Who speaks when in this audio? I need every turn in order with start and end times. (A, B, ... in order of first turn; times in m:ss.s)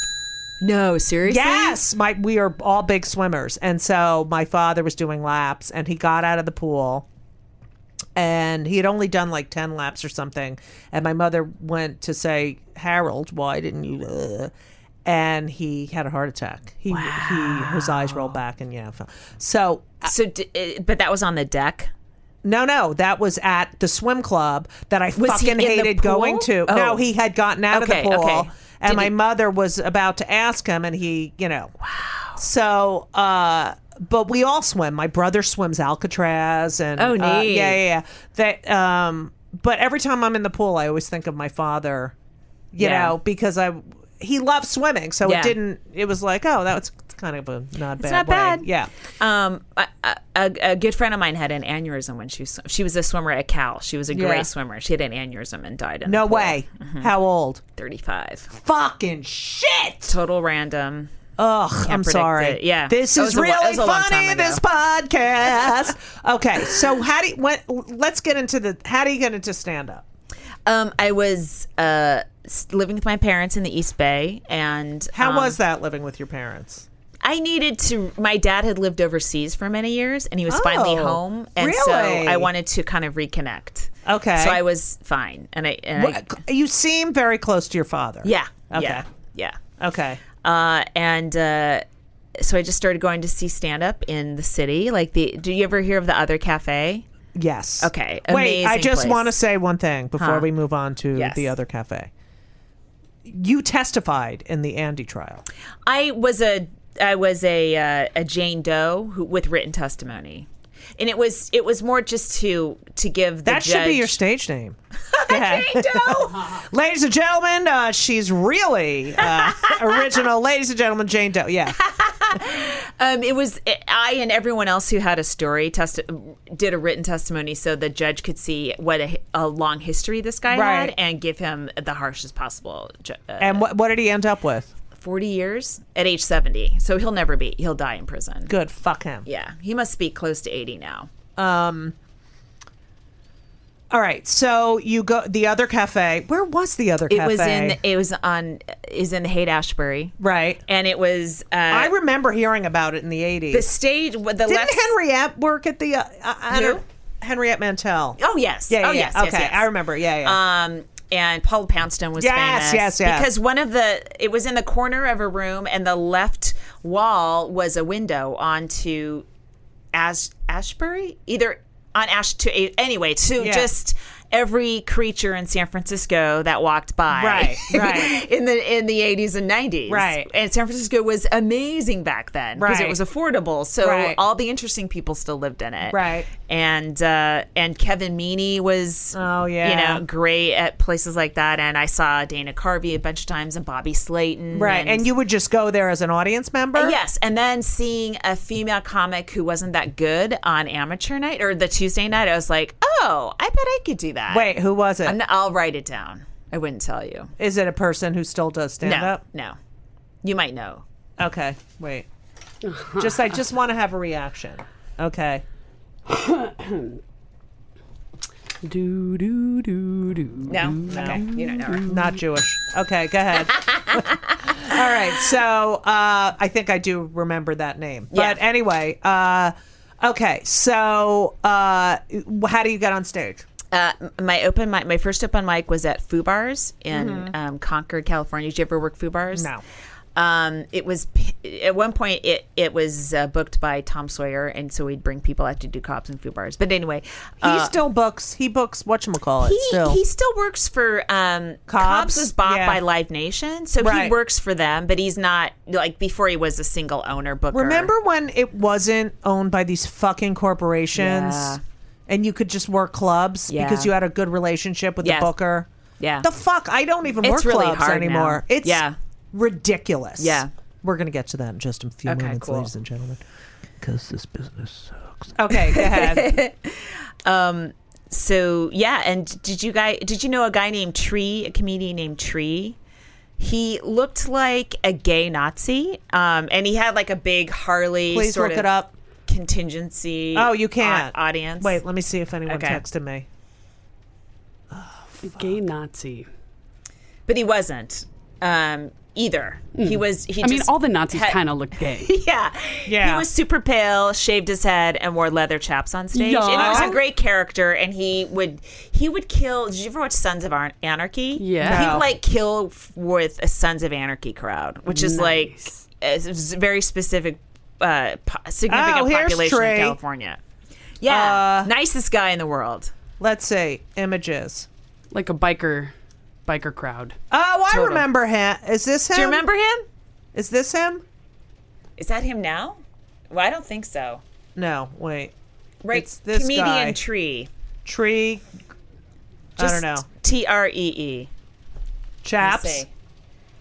0:00.6-0:01.8 A
0:01.2-0:07.1 B
0:08.2-0:14.5 B
0:15.0-0:20.1 B
0:16.9-0:18.4 A
0:20.0-0:21.9 A
0:22.4-0:31.7 B
0:25.2-0:27.1 A
0:27.7-0:29.1 A
0:31.8-0:32.4 A
0:32.4-0:42.1 B
0:37.0-0:37.8 A
0:42.7-0:48.9 B
0:42.8-0:43.2 A
0:45.2-0:45.6 A
0:48.0-0:48.7 A
0:49.2-0:57.1 A
0:54.1-0:54.5 B
0:56.0-0:57.6 B
0:57.8-0:58.5 A
0:58.5-1:00.2 B
1:00.1-1:01.1 A
1:01.4-1:10.0 B
1:01.8-1:04.6 A
1:10.7-1:15.6 A
1:15.1-1:16.9 B
1:17.2-1:26.4 A
1:20.5-1:22.5 B
1:24.0-1:24.6 B
1:26.0-1:29.0 B
1:28.2-1:29.6 A
1:29.8-1:30.2 B
1:30.4-1:31.8 A
1:32.4-1:37.0 A
1:37.4-1:42.1 B
1:37.8-1:39.3 A
1:40.2-1:40.5 A
1:41.1-1:41.5 A
1:43.2-1:45.4 B
1:45.9-1:54.1 A
1:53.5-1:54.8 B
1:55.1-1:56.6 A
1:55.3-2:01.8 B
1:59.2-2:00.0 A
2:01.7-2:13.7 A
2:10.5-2:10.9 B
2:13.4-2:14.7 B
2:15.0-2:18.5 A
2:18.5-2:19.3 B
2:19.3-2:21.1 A
2:21.4-2:22.0 B
2:23.9-2:27.8 B
2:27.1-2:31.9 A
2:30.2-2:30.6 B
2:31.7-2:33.7 B
2:33.5-2:34.9 A
2:34.5-2:38.2 B
2:36.5-2:36.8 A
2:38.2-2:49.3 A
2:38.7-2:40.4 B
2:42.2-2:43.3 B
2:49.9-3:15.1 A
2:53.4-2:53.7 B
2:57.1-2:58.2 B
2:59.9-3:00.3 B
3:02.6-3:03.0 B
3:03.8-3:04.2 B
3:05.9-3:06.3 B
3:09.1-3:10.0 B
3:14.5-3:17.0 B
3:16.8-3:27.3 A
3:24.3-3:25.2 B
3:27.4-3:29.2 B
3:28.8-3:29.6 A
3:30.2-3:30.8 A
3:31.2-3:32.1 B
3:32.7-3:33.1 C
3:32.9-3:35.4 B
3:36.1-3:37.0 C
3:38.6-3:42.1 C
3:40.5-3:42.0 A
3:40.9-3:41.2 B
3:41.8-3:53.4 B
3:43.5-3:44.7 A
3:48.1-3:48.4 A
3:53.7-3:59.5 A
3:56.9-3:57.3 B
3:59.3-3:59.6 B
4:00.2-4:07.8 A
4:07.4-4:10.0 B
4:09.4-4:17.9 A
4:11.7-4:12.8 B
4:13.8-4:14.2 B
4:17.5-4:25.7 B
4:21.0-4:21.6 A
4:23.5-4:23.9 A
4:25.0-4:25.3 A
4:26.0-4:26.3 A
4:26.2-4:33.2 B
4:27.2-4:29.0 A
4:30.2-4:30.5 A
4:32.1-4:32.7 A
4:33.8-4:36.4 B
4:35.6-4:42.8 A
4:43.4-4:48.7 A
4:48.1-4:48.9 B
4:49.3-4:51.8 A
4:50.4-4:53.3 B
4:52.5-4:52.8 A
4:54.7-4:55.5 B
4:55.2-4:56.3 C
4:57.3-5:20.4 A
4:59.8-5:02.1 C
5:02.9-5:03.3 B
5:06.1-5:07.0 C
5:06.5-5:07.0 B
5:11.4-5:12.0 C
5:11.6-5:12.1 B
5:14.9-5:15.8 C
5:18.7-5:20.0 B
5:21.0-5:22.9 A
5:21.0-5:21.7 B
5:23.2-5:24.7 B
5:25.1-5:25.9 C
5:26.5-5:27.2 C
5:27.3-5:29.4 B
5:27.7-5:28.1 A
5:29.1-5:29.9 A
5:30.3-5:31.0 B
5:32.0-5:34.2 A
5:34.6-5:35.3 B
5:35.8-5:37.5 A
5:35.9-5:37.0 B
5:37.8-5:38.4 B
5:39.6-5:40.1 B
5:39.6-5:41.3 A
5:42.2-5:42.9 B
5:42.4-5:42.9 A